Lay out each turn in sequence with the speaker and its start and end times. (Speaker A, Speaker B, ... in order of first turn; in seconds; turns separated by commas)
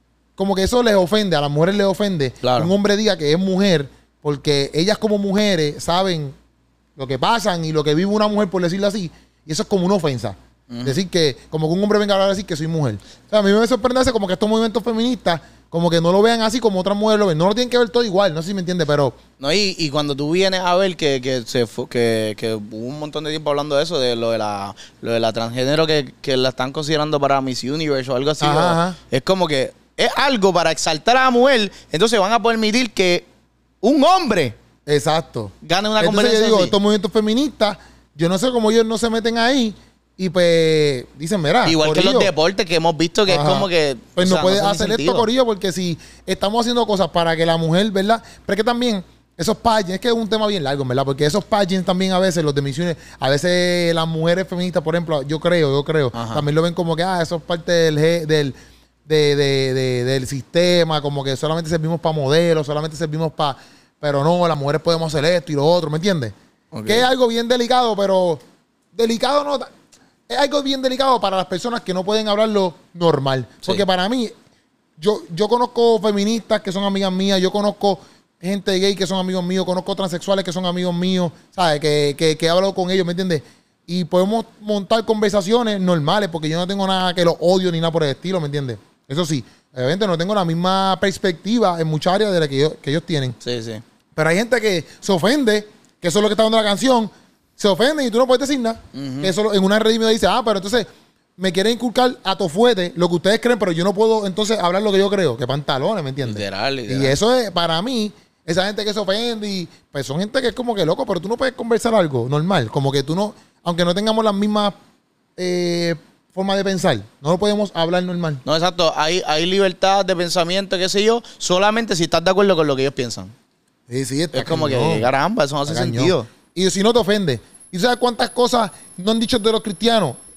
Speaker A: 0.4-6.3, Speaker B: 2.4-2.7, Speaker A: 7.0-19.2, Speaker B: 10.7-11.0, Speaker B: 19.4-33.2, Speaker A: 28.4-29.0, Speaker B: 33.8-34.5, Speaker A: 34.9-42.3, Speaker B: 35.6-36.7, Speaker B: 41.6-45.3, Speaker A: 43.3-58.5, Speaker B: 56.1-56.4, Speaker A: 59.0-66.3, Speaker B: 66.7-67.1, Speaker A: 66.8-68.4, Speaker A: 68.9-69.7, Speaker A: 70.3-74.3, Speaker A: 75.0-93.4, Speaker B: 93.4-93.8, Speaker A: 94.1-114.8, Speaker B: 98.9-99.3, Speaker B: 106.2-107.2, Speaker A: 115.4-118.4, Speaker B: 118.4-123.3, Speaker A: 123.9-125.1, Speaker B: 124.3-126.3, Speaker A: 125.7-130.2